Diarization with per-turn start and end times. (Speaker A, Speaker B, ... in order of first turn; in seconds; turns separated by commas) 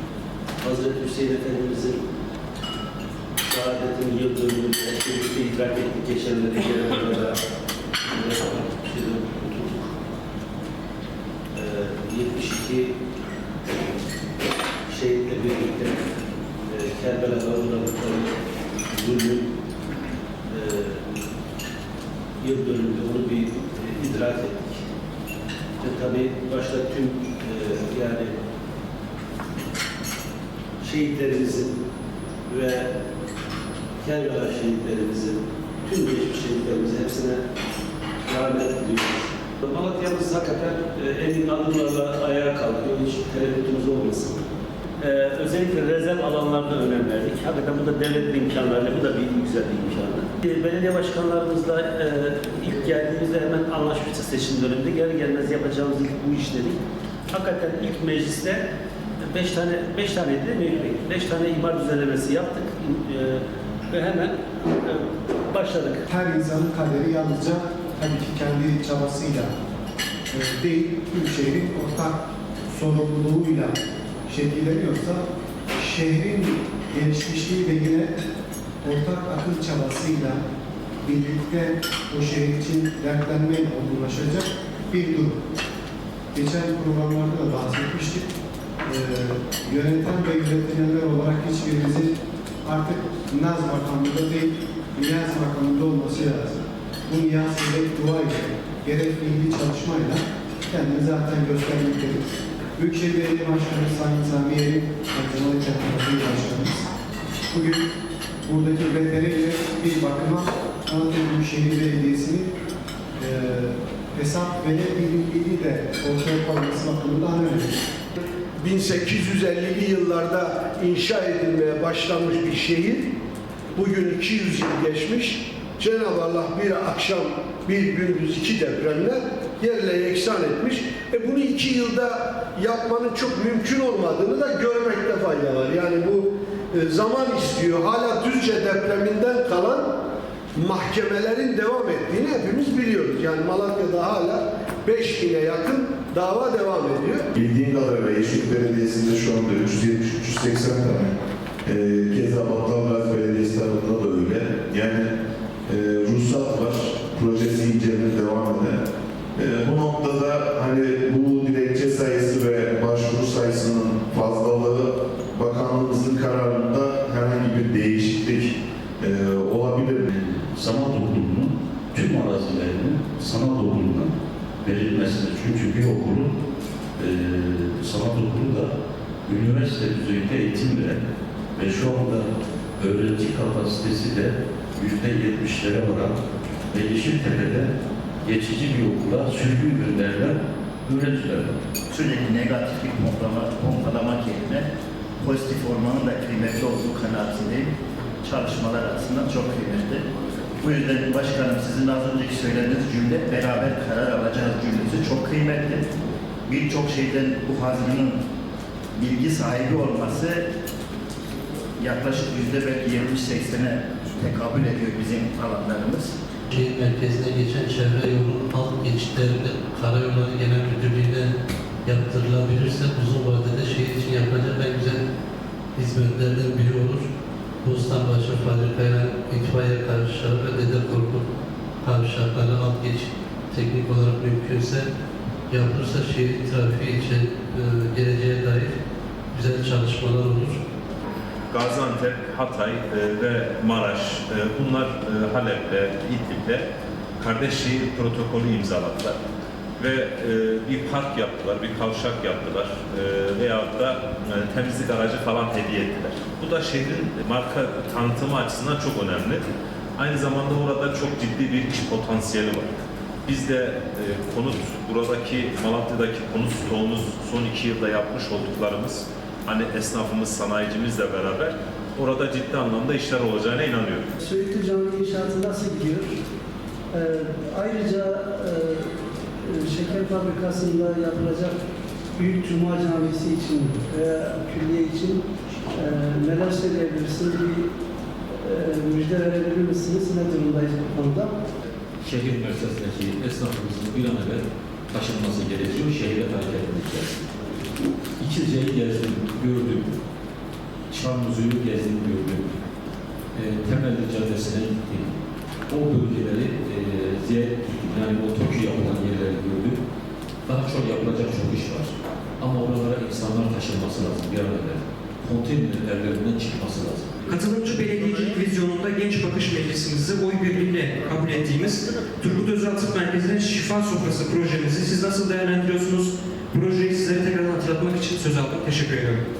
Speaker A: 0.6-2.0, Speaker A: 3.4-7.4, Speaker A: 8.0-9.9, Speaker A: 11.5-12.9, Speaker A: 14.9-16.1, Speaker A: 16.6-18.3, Speaker A: 18.9-19.5, Speaker A: 20.5-21.0, Speaker A: 22.4-24.8, Speaker A: 25.8-28.3, Speaker A: 30.8-31.8, Speaker A: 32.5-32.9, Speaker A: 34.0-37.4, Speaker A: 38.3-44.4, Speaker A: 45.0-56.8, Speaker A: 57.3-58.6, Speaker A: 59.2-66.0, Speaker B: 66.1-69.5, Speaker B: 70.3-73.7, Speaker B: 74.3-75.2, Speaker B: 75.8-78.2, Speaker B: 78.8-80.4, Speaker B: 81.0-85.4, Speaker B: 86.3-88.3, Speaker B: 88.8-106.9, Speaker B: 107.5-107.8, Speaker B: 108.4-112.5, Speaker B: 113.2-117.8, Speaker C: 118.6-123.1, Speaker C: 123.8-139.9, Speaker C: 140.5-147.2, Speaker D: 147.3-151.1, Speaker D: 151.7-155.1, Speaker D: 155.7-158.8, Speaker D: 159.3-170.1, Speaker E: 170.1-174.1, Speaker E: 174.6-176.3, Speaker E: 177.0-178.7, Speaker E: 179.2-181.0, Speaker E: 181.6-187.7, Speaker E: 188.2-191.6, Speaker F: 191.9-194.7, Speaker F: 195.2-200.1, Speaker F: 200.6-205.9, Speaker F: 206.4-208.2, Speaker F: 208.9-210.4, Speaker F: 211.8-216.1, Speaker G: 216.5-221.3, Speaker G: 221.8-225.0, Speaker G: 225.7-227.1, Speaker G: 227.6-231.3, Speaker G: 231.8-234.9, Speaker G: 235.5-238.7, Speaker G: 239.3-240.6, Speaker H: 241.5-246.7, Speaker H: 247.2-249.2, Speaker H: 249.8-259.4, Speaker H: 260.0-274.0, Speaker A: 274.2-276.0, Speaker I: 275.6-276.0, Speaker I: 276.9-278.9, Speaker A: 277.0-278.7, Speaker A: 279.6-281.5, Speaker I: 279.6-280.4, Speaker I: 281.0-281.5, Speaker I: 282.2-285.1, Speaker A: 282.4-285.2, Speaker I: 285.7-287.6, Speaker A: 286.5-287.4, Speaker I: 288.4-289.5, Speaker A: 288.9-290.3, Speaker I: 290.1-291.3, Speaker J: 292.0-297.2, Speaker J: 298.2-299.9, Speaker J: 300.9-302.6, Speaker J: 303.3-305.1, Speaker J: 305.7-309.8, Speaker J: 310.5-317.2, Speaker K: 317.2-329.2